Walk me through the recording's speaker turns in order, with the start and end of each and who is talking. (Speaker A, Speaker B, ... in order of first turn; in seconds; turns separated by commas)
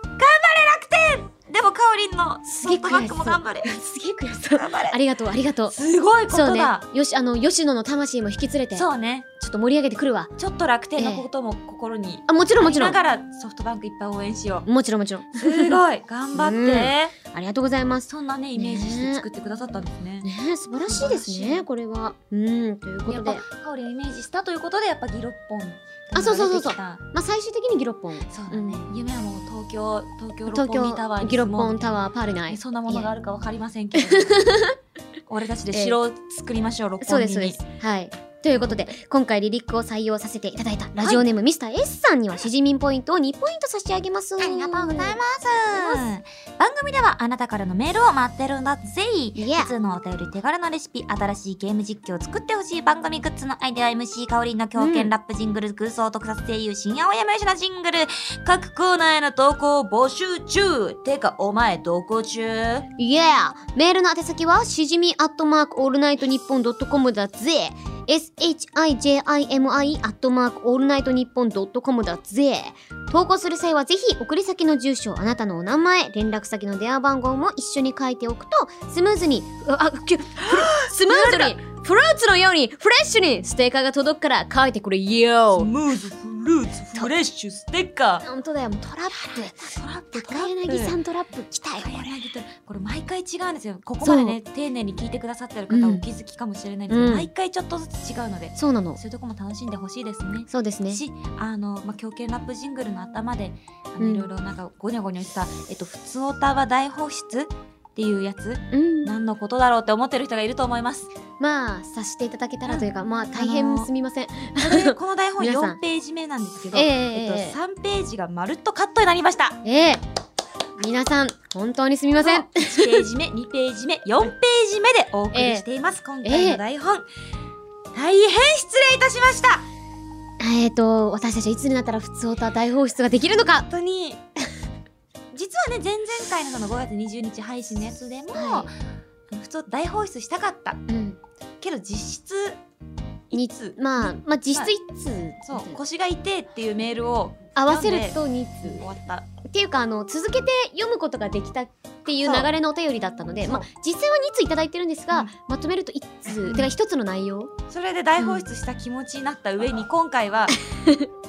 Speaker A: 0.2-3.7, Speaker B: 2.5-5.8, Speaker A: 4.5-5.0, Speaker A: 5.7-6.8, Speaker B: 6.3-10.3, Speaker A: 8.7-9.3, Speaker A: 10.4-14.7, Speaker B: 11.0-11.3, Speaker B: 12.3-13.0, Speaker B: 14.7-15.8, Speaker A: 15.3-17.1, Speaker B: 16.3-19.2, Speaker A: 18.1-20.3, Speaker B: 20.2-23.4, Speaker A: 20.8-21.6, Speaker A: 23.1-27.0, Speaker B: 26.1-28.8, Speaker A: 28.3-34.7, Speaker B: 30.5-33.1, Speaker B: 33.9-34.8, Speaker A: 35.3-37.6, Speaker B: 35.7-36.0, Speaker B: 37.0-46.1, Speaker A: 41.0-41.3, Speaker A: 44.4-62.9, Speaker B: 49.4-49.7, Speaker B: 54.8-55.1, Speaker B: 63.0-85.7, Speaker A: 80.4-81.6, Speaker A: 85.5-88.2, Speaker B: 88.2-92.0, Speaker A: 89.1-91.0, Speaker A: 91.8-111.1, Speaker B: 94.0-94.4, Speaker B: 95.7-96.0, Speaker B: 96.9-97.3, Speaker B: 98.5-99.0, Speaker B: 100.5-101.0, Speaker B: 104.0-104.3, Speaker B: 108.7-109.1, Speaker B: 111.4-115.8, Speaker A: 112.7-113.9, Speaker A: 114.5-119.6, Speaker B: 116.7-117.6, Speaker B: 119.6-120.0, Speaker B: 120.8-123.0, Speaker A: 122.2-127.0, Speaker B: 125.3-125.7, Speaker B: 126.2-126.6, Speaker A: 127.9-129.6, Speaker B: 130.4-133.7, Speaker A: 133.6-134.2, Speaker A: 135.3-138.7, Speaker B: 138.3-138.7, Speaker A: 139.3-140.8, Speaker B: 140.9-141.2, Speaker A: 141.6-142.6, Speaker A: 143.3-143.8, Speaker B: 143.3-145.8, Speaker A: 145.4-149.3, Speaker B: 147.5-148.9, Speaker B: 149.4-157.5, Speaker A: 152.2-152.5, Speaker A: 153.4-153.7, Speaker A: 156.4-156.7, Speaker A: 157.7-160.6, Speaker B: 158.2-158.4, Speaker B: 160.6-161.1